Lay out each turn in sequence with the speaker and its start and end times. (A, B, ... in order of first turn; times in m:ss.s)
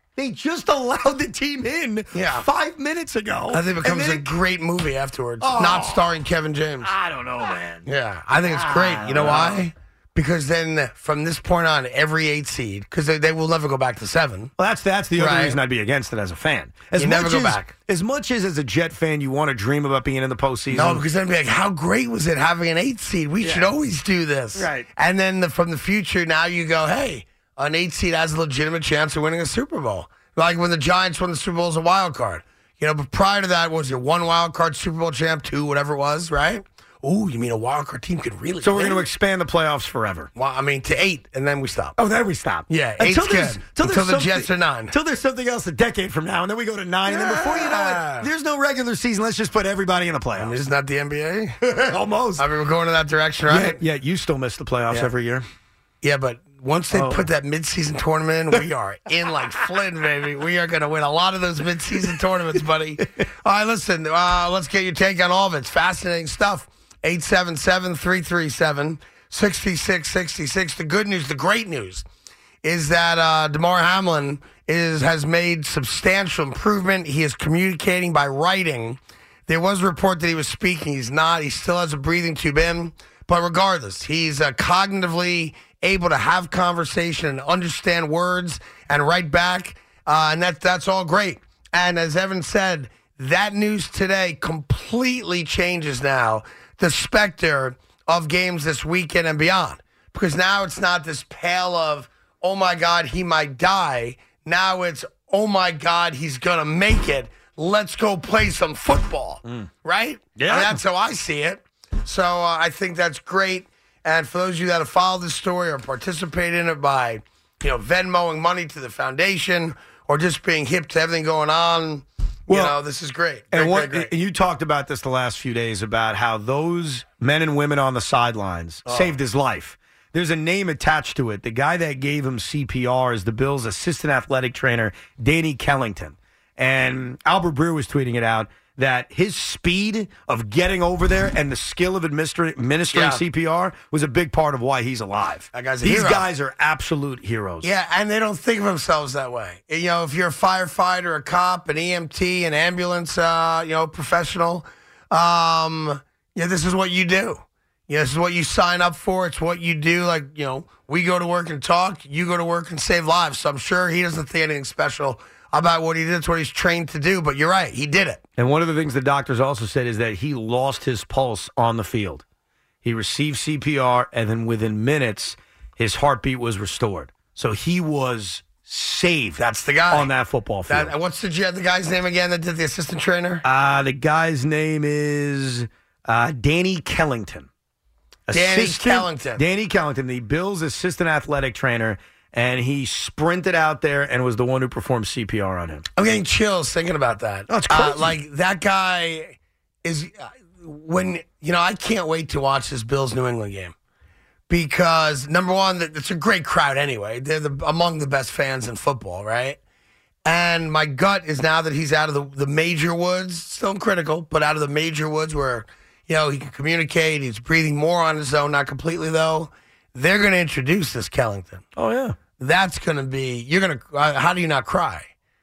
0:00.2-0:04.2 A
0:02.1-0:02.5 B
0:03.5-0:06.9 B
0:05.4-0:06.2 A
0:06.8-0:07.9 A
0:07.9-0:14.5 B
0:08.4-0:09.6 A
0:14.6-0:21.0 A
0:15.2-0:15.6 B
0:17.0-0:17.7 B
0:20.7-0:39.1 B
0:23.4-0:23.7 A
0:24.6-0:24.9 A
0:38.6-0:40.3 A
0:40.4-0:42.0 B
0:42.0-0:50.6 A
0:42.7-0:44.9 B
0:47.1-0:48.3 B
0:50.4-0:53.8 B
0:51.6-0:52.4 A
0:53.5-0:55.4 A
0:56.0-1:12.0 B
0:56.9-0:57.3 A
1:12.6-2:04.1 B
1:50.4-1:50.8 A
2:02.5-2:02.8 A
2:03.5-2:27.7 A
2:08.9-2:09.2 B
2:22.9-2:23.2 B
2:25.5-2:26.3 B
2:27.6-2:48.2 B
2:48.4-2:52.2 A
2:52.8-3:00.9 A
2:59.4-3:00.1 B
3:00.7-3:03.4 B
3:03.4-3:07.5 A
3:08.3-3:15.9 A
3:08.3-3:09.4 B
3:16.0-3:23.7 B
3:17.5-3:18.2 A
3:24.5-3:29.6 B
3:30.2-3:41.6 B
3:41.8-3:42.2 A
3:42.4-3:45.0 B